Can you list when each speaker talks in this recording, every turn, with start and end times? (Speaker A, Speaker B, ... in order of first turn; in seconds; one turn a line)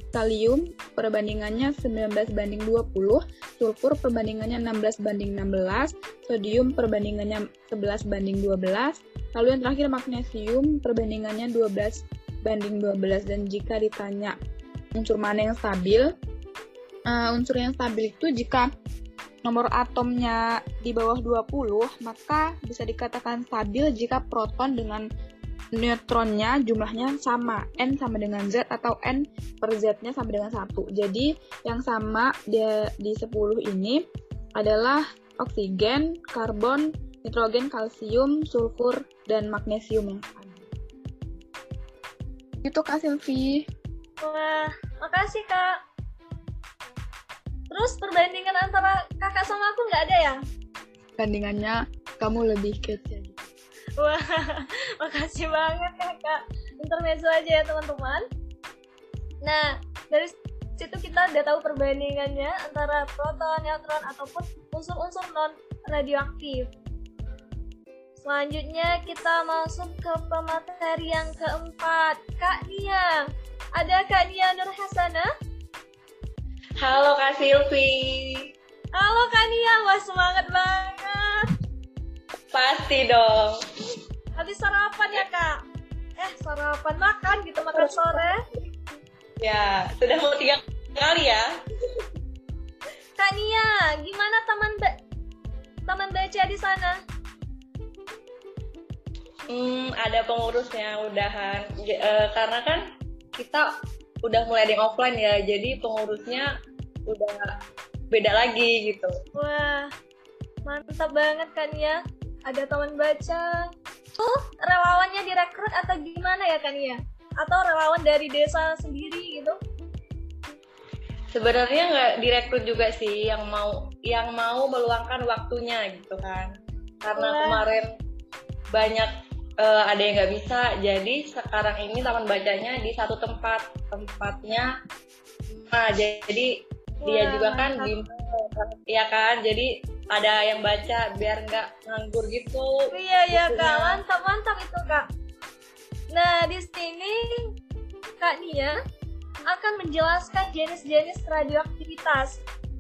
Speaker A: 0.1-14.3
Speaker A: 14.9-16.1
Speaker A: 17.1-18.6
Speaker A: 19.5-25.0
Speaker A: 25.8-34.0
Speaker A: 34.6-40.6
Speaker A: 42.6-43.6
Speaker B: 44.2-45.8
Speaker B: 47.7-50.4
Speaker A: 51.2-53.5
Speaker B: 54.0-58.2
Speaker B: 59.4-66.7
Speaker B: 68.2-73.2
Speaker B: 73.8-75.3
Speaker C: 76.8-78.5
Speaker B: 79.0-81.5
Speaker C: 82.5-83.6
Speaker B: 84.4-85.6
Speaker B: 86.2-88.4
Speaker C: 87.8-88.3
Speaker C: 89.4-91.5
Speaker B: 93.2-95.0
Speaker B: 95.9-97.0
Speaker C: 99.5-103.7
Speaker C: 104.2-106.5
Speaker C: 107.1-107.4
Speaker C: 108.1-109.1
Speaker B: 109.4-109.9
Speaker B: 110.7-119.6
Speaker C: 121.3-127.9
Speaker B: 127.2-127.6
Speaker C: 128.7-129.1
Speaker C: 129.6-134.7
Speaker C: 135.5-136.5
Speaker B: 137.0-137.9
Speaker C: 137.1-144.0
Speaker B: 142.9-145.1
Speaker B: 146.1-147.5
Speaker B: 148.2-148.8
Speaker B: 149.5-152.4